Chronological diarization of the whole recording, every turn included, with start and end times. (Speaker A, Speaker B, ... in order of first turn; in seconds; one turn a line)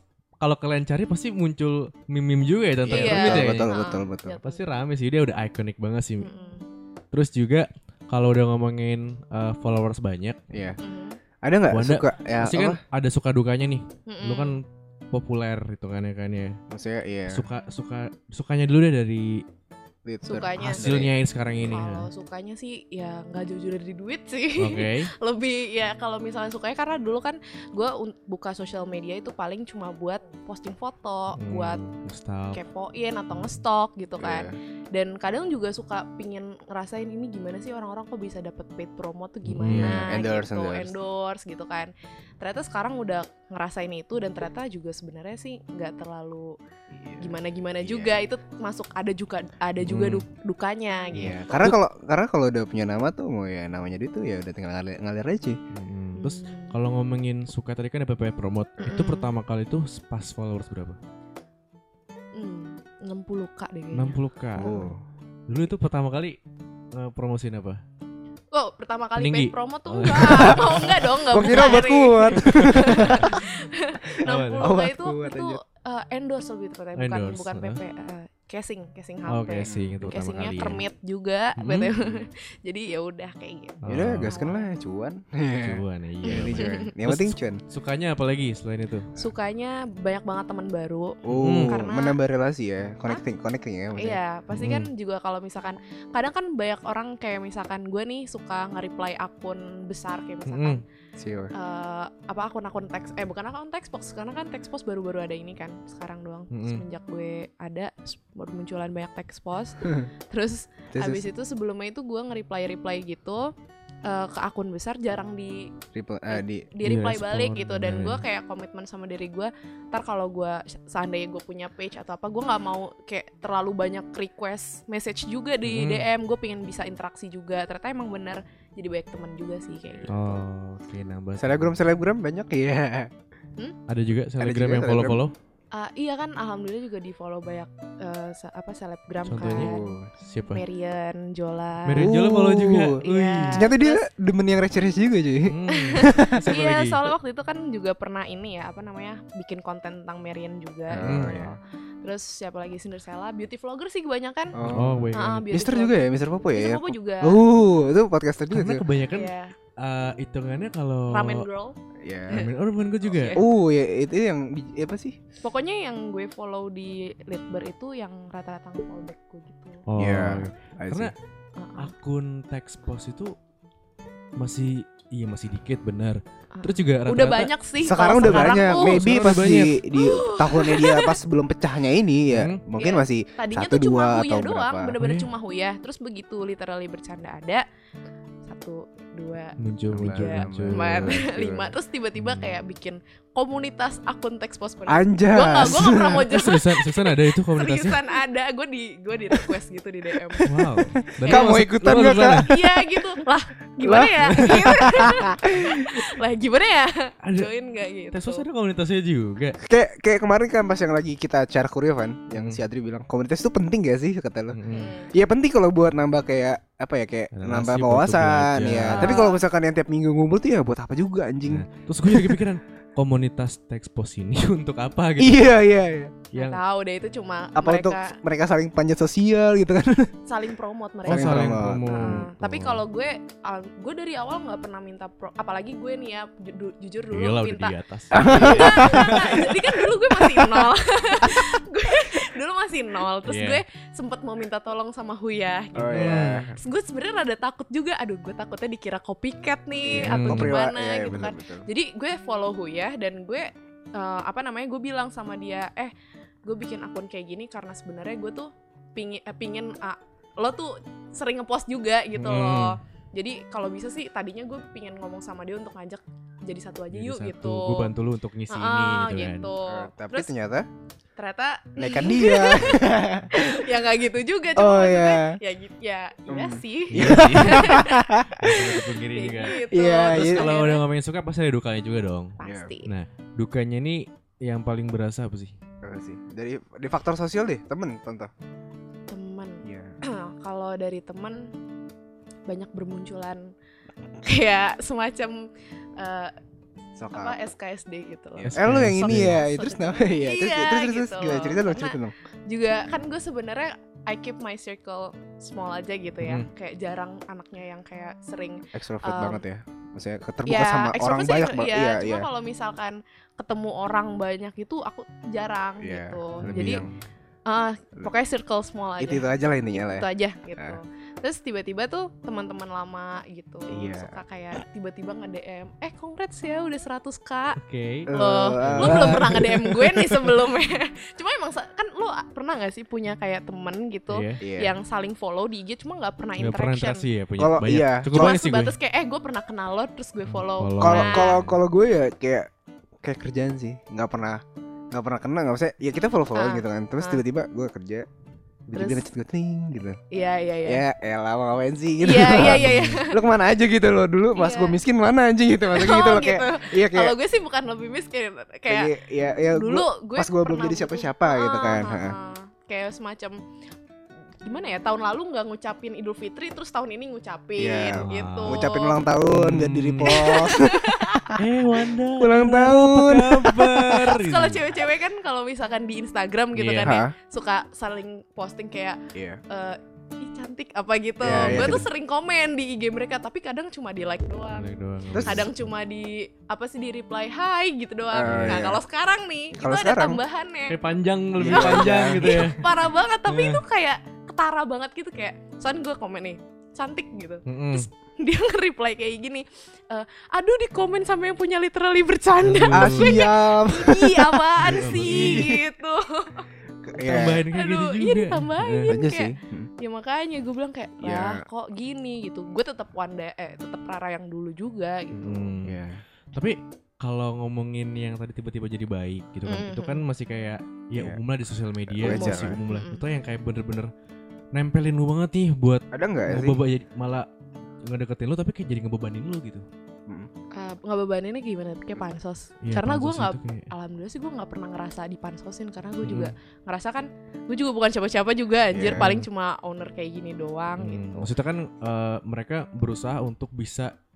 Speaker A: 0.4-3.7
Speaker B: 2.8-4.4
Speaker C: 2.9-4.6
Speaker A: 4.4-6.3
Speaker C: 6.2-6.6
Speaker A: 7.1-10.4
Speaker B: 10.5-10.8
Speaker C: 10.8-11.2
Speaker B: 11.4-12.8
Speaker A: 11.7-16.6
Speaker C: 14.1-14.6
Speaker B: 16.7-17.4
Speaker A: 17.3-19.4
Speaker B: 20.0-21.1
Speaker C: 20.2-20.9
Speaker A: 20.6-22.1
Speaker C: 21.6-31.8
Speaker A: 24.6-25.1
Speaker A: 31.3-32.6
Speaker C: 32.5-46.6
Speaker B: 34.2-34.5
Speaker A: 39.4-40.1
Speaker B: 39.6-40.9
Speaker B: 46.9-48.2
Speaker C: 47.2-51.7
Speaker A: 49.8-50.2
Speaker B: 51.1-55.6
Speaker A: 55.7-61.0
Speaker C: 56.1-56.7
Speaker C: 58.8-59.3
Speaker C: 62.3-64.9
Speaker A: 63.9-64.7
Speaker B: 64.6-65.0
Speaker A: 65.5-66.4
Speaker A: 66.9-67.8
Speaker C: 68.5-84.7
Speaker A: 69.2-71.7
Speaker B: 70.2-70.6
Speaker B: 71.2-73.4
Speaker A: 72.4-73.4
Speaker B: 74.1-75.6
Speaker A: 74.2-74.7
Speaker A: 77.0-77.8
Speaker A: 79.3-80.8
Speaker B: 79.6-79.9
Speaker A: 81.6-81.9
Speaker A: 83.8-84.3
Speaker B: 83.9-87.6
Speaker A: 85.6-89.1
Speaker C: 86.2-86.9
Speaker C: 89.2-92.2
Speaker B: 91.2-94.2
Speaker A: 91.3-91.8
Speaker C: 94.0-100.8
Speaker A: 94.5-94.9
Speaker A: 100.5-100.8
Speaker B: 101.2-101.5
Speaker C: 101.5-113.5
Speaker A: 106.5-106.8
Speaker B: 110.9-111.2
Speaker C: 114.0-115.7
Speaker B: 115.9-116.7
Speaker C: 116.3-130.3
Speaker A: 116.8-118.2
Speaker A: 125.7-126.1
Speaker A: 130.1-131.8
Speaker B: 131.4-133.1
Speaker A: 133.9-135.3
Speaker B: 134.4-135.2
Speaker C: 135.7-140.0
Speaker A: 139.2-140.6
Speaker B: 139.4-140.1
Speaker C: 140.5-142.1
Speaker A: 141.8-143.7
Speaker B: 142.0-143.0
Speaker C: 143.0-144.0
Speaker B: 143.5-146.4
Speaker A: 145.4-147.1
Speaker C: 145.7-157.4
Speaker B: 150.9-151.5
Speaker A: 151.0-151.4
Speaker B: 154.5-158.8
Speaker A: 154.6-155.5
Speaker A: 158.5-161.5
Speaker C: 159.1-159.6
Speaker C: 161.1-161.8
Speaker B: 162.0-162.4
Speaker A: 162.3-163.4
Speaker C: 163.1-163.4
Speaker B: 163.3-165.2
Speaker C: 165.4-169.8
Speaker A: 169.9-171.1
Speaker B: 170.0-171.1
Speaker C: 171.6-171.9
Speaker A: 171.8-173.3
Speaker A: 174.4-177.5
Speaker C: 176.5-179.1
Speaker B: 177.8-184.9
Speaker A: 178.2-179.8
Speaker C: 179.9-181.1
Speaker A: 182.3-182.6
Speaker C: 182.8-187.6
Speaker A: 185.0-185.3
Speaker C: 188.4-200.5
Speaker A: 189.6-191.2
Speaker B: 189.9-191.7
Speaker A: 192.2-192.5
Speaker B: 194.9-196.3
Speaker A: 196.1-198.0
Speaker B: 200.2-200.7
Speaker A: 200.4-202.5
Speaker B: 201.2-202.8
Speaker C: 201.2-201.6
Speaker C: 202.1-208.4
Speaker B: 203.8-206.1
Speaker A: 204.2-204.8
Speaker A: 207.2-207.5
Speaker A: 208.1-209.6
Speaker B: 209.6-214.6
Speaker A: 212.3-212.6
Speaker A: 214.5-214.9
Speaker C: 214.7-215.1
Speaker B: 215.1-222.5
Speaker A: 217.3-219.2
Speaker C: 218.9-219.4
Speaker A: 221.5-225.5
Speaker B: 225.2-226.2
Speaker A: 226.3-226.6
Speaker C: 226.3-228.2
Speaker B: 227.6-230.1
Speaker C: 230.3-255.9
Speaker B: 231.1-232.3
Speaker A: 231.1-232.8
Speaker A: 237.1-239.5
Speaker B: 238.1-240.7
Speaker A: 243.2-243.6
Speaker B: 245.7-246.5
Speaker A: 245.9-246.5
Speaker B: 249.8-251.6
Speaker A: 250.0-250.5
Speaker C: 256.4-267.9
Speaker A: 262.1-262.8
Speaker A: 266.9-269.5
Speaker C: 268.5-270.3
Speaker B: 269.6-270.7
Speaker C: 271.2-280.8
Speaker B: 271.8-273.4
Speaker B: 274.6-275.4
Speaker B: 276.3-278.7
Speaker A: 276.9-277.8
Speaker A: 278.4-285.6
Speaker B: 279.7-280.5
Speaker C: 282.4-282.9
Speaker B: 282.4-282.7
Speaker B: 285.8-288.3
Speaker C: 289.1-291.5
Speaker B: 289.6-289.9
Speaker C: 292.5-293.5
Speaker C: 294.2-296.3
Speaker B: 297.0-297.4
Speaker C: 297.1-309.4
Speaker B: 298.4-302.1
Speaker A: 298.4-299.4
Speaker A: 306.2-306.5
Speaker B: 308.7-312.3
Speaker C: 310.5-316.8
Speaker B: 315.8-316.9
Speaker A: 316.4-316.8
Speaker C: 317.4-337.0
Speaker B: 319.0-320.8
Speaker B: 323.7-324.2
Speaker A: 327.6-329.5
Speaker B: 328.1-329.7
Speaker A: 334.1-334.4
Speaker B: 334.4-334.7
Speaker A: 336.4-338.7
Speaker B: 337.4-338.4
Speaker C: 338.1-341.4
Speaker A: 340.2-341.6
Speaker B: 340.8-342.5
Speaker B: 343.0-348.1
Speaker C: 346.3-347.2
Speaker B: 348.7-350.0
Speaker C: 348.7-349.0
Speaker C: 350.1-350.8
Speaker B: 350.6-357.1
Speaker C: 352.0-353.2
Speaker A: 352.4-353.0
Speaker C: 354.4-354.8
Speaker C: 355.7-358.9
Speaker B: 358.7-362.1
Speaker C: 359.5-363.4
Speaker C: 364.4-369.0
Speaker B: 367.6-371.4
Speaker A: 367.9-368.6
Speaker A: 369.3-370.2
Speaker C: 370.0-371.3
Speaker A: 371.3-374.6
Speaker B: 372.2-374.1
Speaker C: 373.9-379.0
Speaker A: 376.5-377.0
Speaker B: 376.8-377.1
Speaker B: 379.1-379.4
Speaker C: 379.5-384.6
Speaker B: 381.2-381.9
Speaker A: 381.2-381.8
Speaker A: 384.6-385.5
Speaker B: 385.1-385.5
Speaker C: 385.2-390.8
Speaker B: 388.1-388.8
Speaker A: 388.2-388.6
Speaker B: 389.6-390.2
Speaker A: 390.7-392.6
Speaker B: 391.4-392.5
Speaker C: 391.5-406.5
Speaker A: 393.3-393.6
Speaker A: 397.4-397.9
Speaker A: 402.4-403.1
Speaker B: 402.7-405.6
Speaker A: 404.6-405.5
Speaker B: 406.8-407.4
Speaker A: 407.0-408.9
Speaker C: 407.5-415.5
Speaker B: 408.9-409.7
Speaker B: 411.0-411.4
Speaker A: 415.1-415.8
Speaker B: 415.6-416.0
Speaker A: 416.3-423.9
Speaker C: 419.4-420.0
Speaker B: 421.9-422.6
Speaker C: 422.1-423.0
Speaker A: 424.5-427.2
Speaker B: 425.9-426.6
Speaker A: 427.8-429.6
Speaker C: 430.5-441.3
Speaker A: 432.6-433.7
Speaker A: 436.0-436.3
Speaker B: 438.7-439.1
Speaker A: 438.9-439.2
Speaker A: 440.8-443.9